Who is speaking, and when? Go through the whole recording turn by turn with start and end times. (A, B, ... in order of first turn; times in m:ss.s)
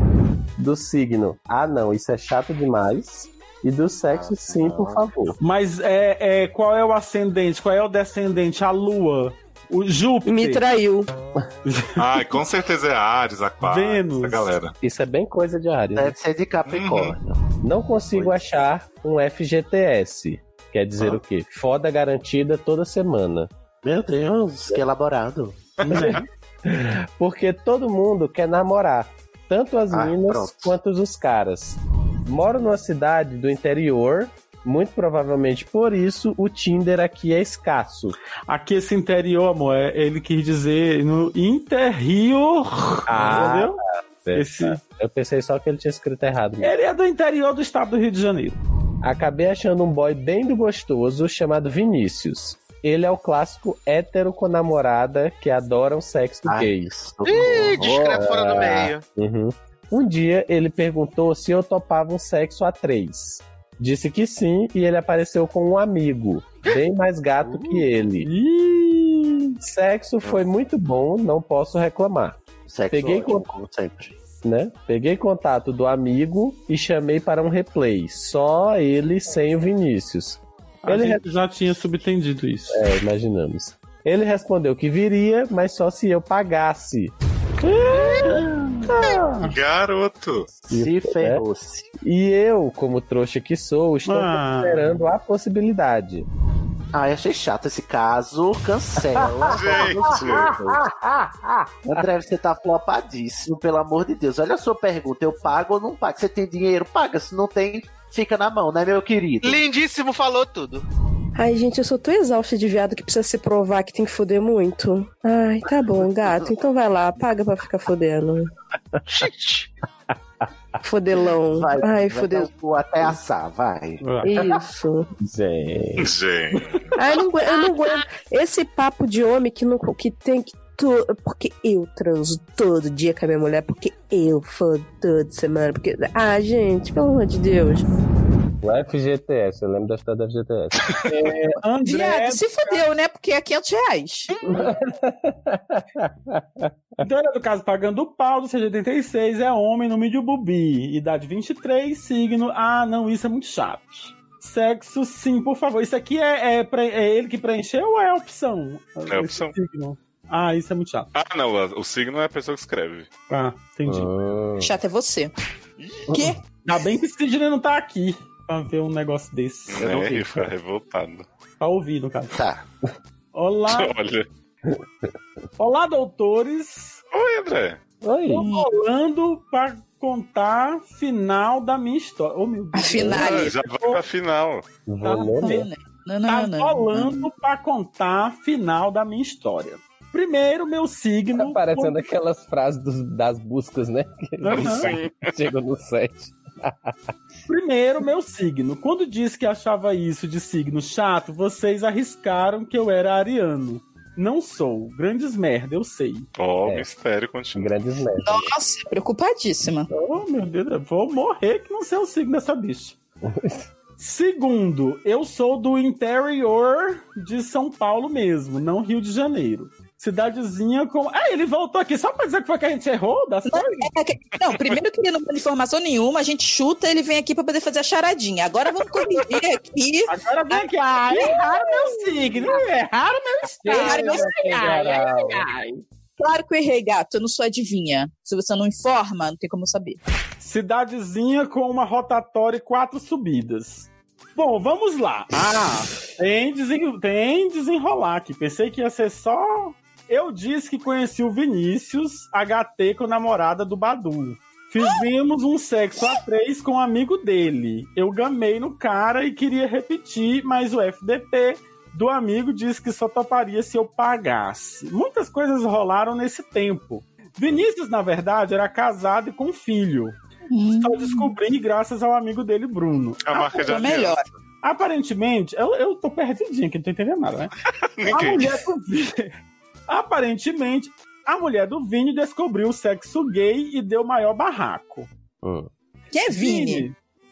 0:00.6-0:05.4 A
0:04.1-0:05.0 B
0:05.4-0:10.6 C
0:10.2-0:11.1 D
0:11.6-0:12.4 C
0:12.0-0:14.7 E
0:13.6-0:14.5 C
0:14.8-0:16.2 A
0:15.9-0:17.5 B
0:16.6-0:17.2 E
0:17.6-0:23.5 A
0:18.1-0:18.4 B
0:23.8-0:25.6 B
0:25.8-0:26.2 C
0:25.9-0:26.2 E
0:25.9-0:38.2 A
0:29.9-0:30.7 B
0:38.5-0:43.8 C
0:43.1-0:46.7 A
0:44.3-0:44.8 C
0:46.6-0:48.6 C
0:49.0-1:08.3 A
0:56.4-0:58.9 B
0:57.6-0:59.0 F
1:07.4-1:07.8 B
1:08.2-1:09.6 C
1:09.6-1:12.4 A
1:12.7-1:14.1 B
1:12.9-1:13.4 A
1:14.4-1:21.2 A
1:20.8-1:22.8 C
1:22.7-1:27.1 A
1:27.6-1:29.5 C
1:29.0-1:30.5 E
1:30.7-1:31.9 B
1:30.7-1:31.4 A
1:32.0-1:36.2 A
1:34.0-1:34.9 C
1:36.9-1:40.9 B
1:39.1-1:42.0 A
1:39.5-1:40.5 E
1:41.8-1:49.7 B
1:49.4-1:50.8 F
1:51.4-1:58.5 D
2:00.8-2:02.5 D
2:01.5-2:04.0 B
2:04.0-2:04.5 C
2:04.2-2:05.1 D
2:05.2-2:06.1 A
2:06.0-2:06.9 E
2:06.9-2:17.9 D
2:18.6-2:21.1 A
2:21.0-2:22.8 C
2:21.8-2:24.3 G
2:24.5-2:26.7 A
2:27.0-2:41.1 C
2:39.1-2:39.5 E
2:41.1-2:43.1 E
2:43.3-2:44.1 C
2:43.8-2:44.7 A
2:44.6-2:45.3 G
2:46.1-2:46.4 A
2:46.1-2:46.4 G
2:46.6-2:49.9 C
2:49.7-2:51.2 E
2:49.8-2:50.5 A
2:51.6-2:52.3 C
2:52.3-2:52.6 B
2:53.3-2:54.0 C
2:53.7-2:54.2 E
2:55.6-2:57.0 C
2:57.1-2:57.8 E
2:58.0-2:58.4 A
2:58.3-3:04.0 C
2:58.4-2:58.7 G
3:02.7-3:03.6 G
3:03.0-3:03.2 A
3:03.1-3:04.6 E
3:04.9-3:05.7 A
3:05.0-3:05.7 C
3:05.4-3:07.3 G
3:06.3-3:12.0 C
3:11.3-3:16.9 A
3:14.4-3:14.9 C
3:14.5-3:15.3 E
3:17.5-3:26.3 C
3:26.4-3:27.8 E
3:27.5-3:28.5 A
3:28.2-3:29.9 G
3:29.9-3:33.0 C
3:33.3-3:33.6 A
3:34.0-3:43.9 C
3:43.4-3:51.4 G
3:50.1-3:54.4 C
3:53.6-3:55.5 A
3:53.6-3:55.5 G
3:56.2-4:00.0 G
4:00.4-4:30.2 C
4:30.5-4:31.3 G
4:30.8-4:33.7 C
4:33.2-4:34.3 E
4:33.5-4:34.2 G
4:34.6-4:37.5 C
4:38.0-4:38.6 E
4:38.0-4:39.3 C
4:39.9-4:45.1 C
4:45.4-4:45.7 A
4:46.1-4:46.9 G
4:46.3-4:46.9 C